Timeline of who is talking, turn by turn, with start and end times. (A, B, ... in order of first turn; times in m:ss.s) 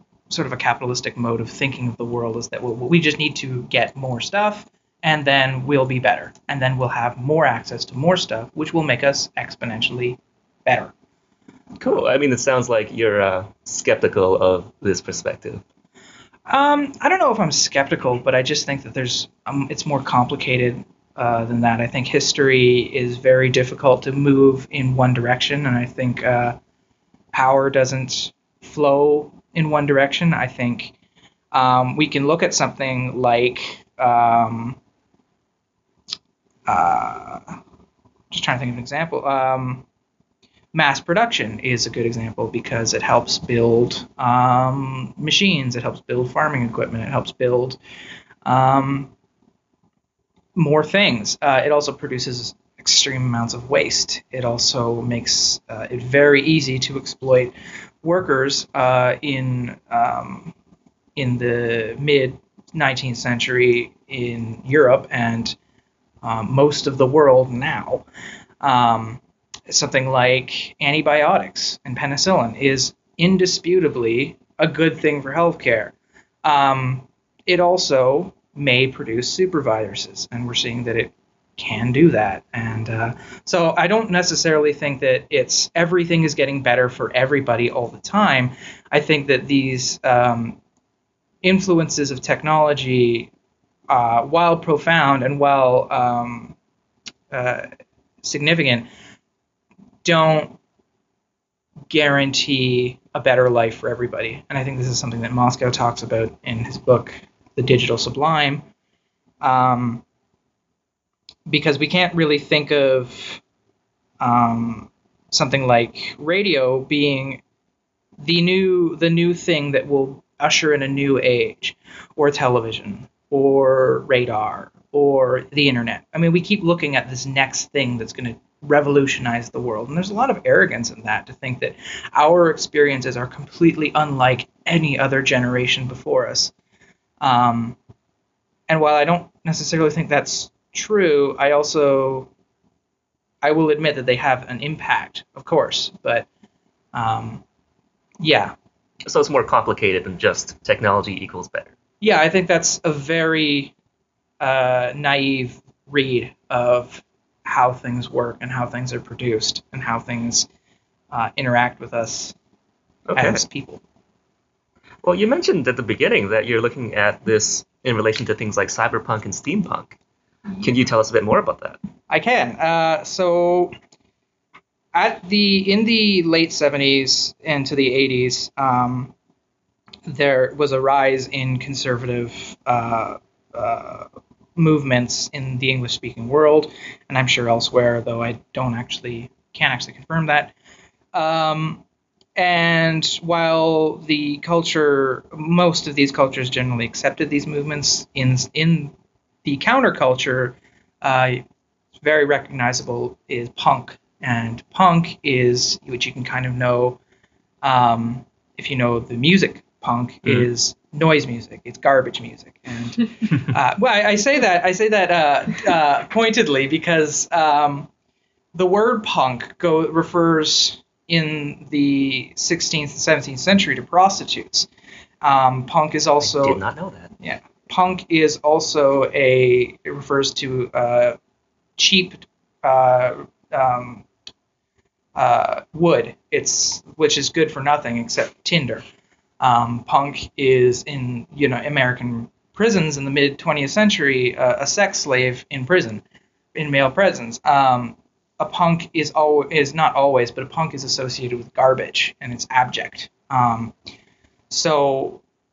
0:00.3-0:10.9 A
0:11.8-0:15.6 B
0:16.5-0:26.6 A
0:27.3-0:30.9 A
0:31.5-0:34.8 A
0:36.7-0:37.6 A
0:38.3-0:39.8 A
0:40.7-0:47.8 A
0:48.4-0:49.1 A
0:50.5-1:00.5 A
1:01.2-1:05.6 A
1:06.2-1:08.0 A
1:08.6-1:30.6 A
1:31.4-1:33.3 A
1:33.9-1:36.5 A
1:37.3-1:37.7 A
1:38.2-1:38.9 A
1:40.0-1:40.6 A
1:41.9-1:48.6 A
1:49.4-1:50.0 A
1:51.5-1:53.4 A
1:54.2-1:57.4 A
1:58.2-2:16.5 A
2:17.2-2:17.8 A
2:18.7-2:22.3 A
2:23.4-2:26.3 A
2:26.9-2:27.4 A
2:28.2-2:28.5 A
2:29.0-2:31.7 B
2:32.0-2:33.7 A
2:34.4-2:40.5 A
2:41.1-2:42.3 A
2:43.1-2:43.4 B
2:43.2-2:43.8 A
2:45.0-2:50.0 B
2:50.6-2:51.8 B
2:52.1-2:53.7 A
2:54.9-2:59.1 A
3:00.0-3:10.5 A
3:11.1-3:11.8 A
3:12.4-3:18.9 A
3:19.4-3:21.4 A
3:22.0-3:27.0 A
3:27.6-3:37.9 A
3:38.5-3:44.7 A
3:45.2-3:46.6 A
3:46.2-3:47.1 B
3:47.2-3:51.2 A
3:51.8-3:54.0 A
3:55.2-3:58.8 A
3:59.4-4:06.0 A
4:06.5-4:13.7 A
4:14.5-4:15.2 A